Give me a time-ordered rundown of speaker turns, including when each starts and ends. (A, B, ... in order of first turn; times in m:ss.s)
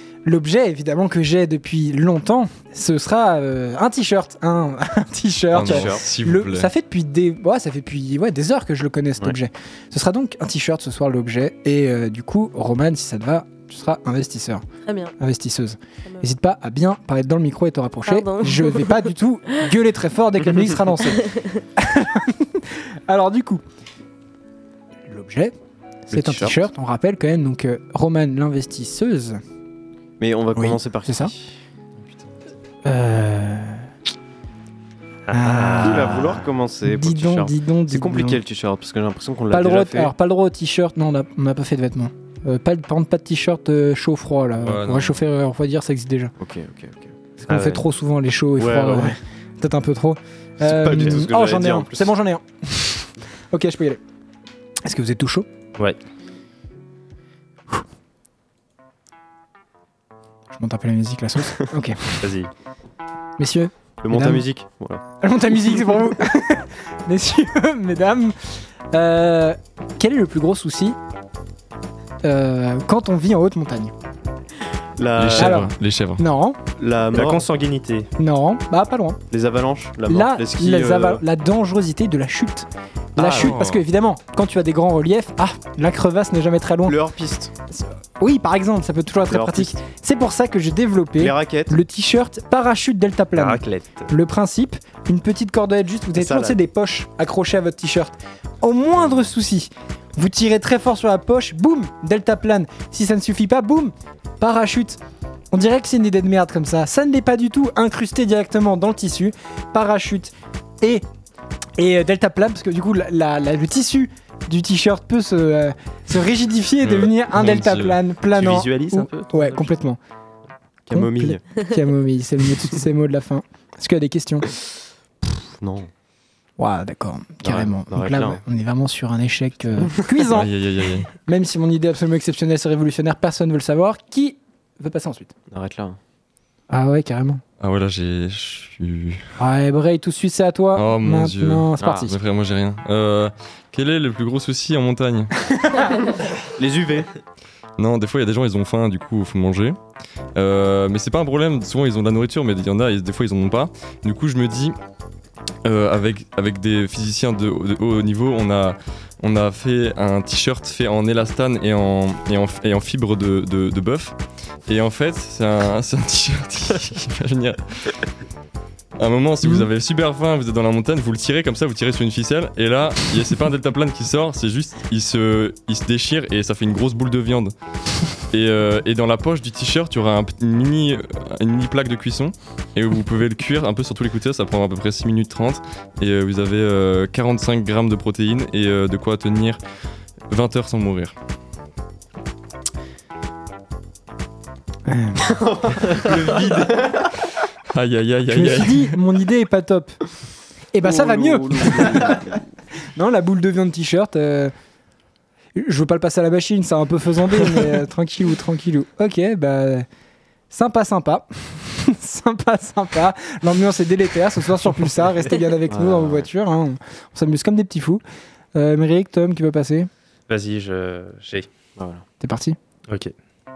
0:00.2-0:14.6 A
0:05.5-0:06.7 B
0:05.6-0:06.0 C
0:14.8-0:15.1 D
0:15.2-0:23.6 A
0:16.0-0:16.3 D
0:18.1-0:19.1 D
0:21.2-0:21.5 D
0:25.1-0:25.5 A
0:26.1-0:29.4 A
0:26.1-0:26.6 C
0:30.2-0:31.6 C
0:30.6-0:31.3 A
0:32.8-0:33.9 A
0:35.3-0:36.2 E
0:35.3-0:38.4 A
0:35.7-0:40.1 C
0:39.5-0:46.3 A
0:44.6-0:45.2 B
0:46.4-0:47.1 C
0:47.4-0:54.0 A
0:47.5-0:47.8 E
0:48.6-0:49.2 C
0:50.6-0:52.1 C
0:54.8-0:55.5 A
1:00.5-1:02.2 A
1:02.2-1:02.5 E
1:03.4-1:04.4 A
1:04.0-1:05.0 C
1:05.2-1:11.0 A
1:12.2-1:13.9 A
1:15.0-1:15.6 C
1:15.2-1:16.2 B
1:15.4-1:16.6 A
1:16.8-1:17.5 C
1:17.1-1:18.1 E
1:18.2-1:19.2 A
1:19.3-1:21.2 C
1:20.1-1:27.0 A
1:23.2-1:23.6 C
1:23.3-1:23.8 B
1:26.9-1:27.5 C
1:27.7-1:45.0 A
1:29.3-1:29.8 C
1:31.2-1:31.8 C
1:33.4-1:34.1 E
1:36.1-1:36.6 C
1:45.5-1:51.0 A
1:51.8-2:00.0 A
1:56.8-1:58.0 B
1:58.3-1:59.8 E
2:00.9-2:01.4 C
2:00.9-2:04.5 A
2:05.6-2:05.9 C
2:06.6-2:10.5 A
2:07.4-2:08.4 C
2:10.3-2:11.1 B
2:11.2-2:15.3 A
2:15.5-2:16.0 C
2:16.7-2:17.4 A
2:17.6-2:19.2 B
2:19.4-2:22.1 A
2:20.8-2:25.3 B
2:21.8-2:22.1 C
2:26.5-2:27.1 C
2:27.8-2:29.8 B
2:30.4-2:34.8 B
2:35.6-2:44.2 B
2:44.7-2:47.9 B
2:49.0-2:57.5 B
2:58.3-3:09.6 B
3:10.3-3:11.1 B
3:14.9-3:15.3 A
3:15.2-3:17.1 C
3:17.7-3:19.0 B
3:18.3-3:20.0 A
3:20.7-3:22.2 A
3:21.1-3:22.1 C
3:23.0-3:24.5 A
3:25.6-3:29.9 A
3:30.5-3:38.0 A
3:35.7-3:36.3 C
3:38.6-3:39.9 A
3:40.3-3:41.5 E
3:41.8-3:42.0 C
3:42.2-3:42.6 A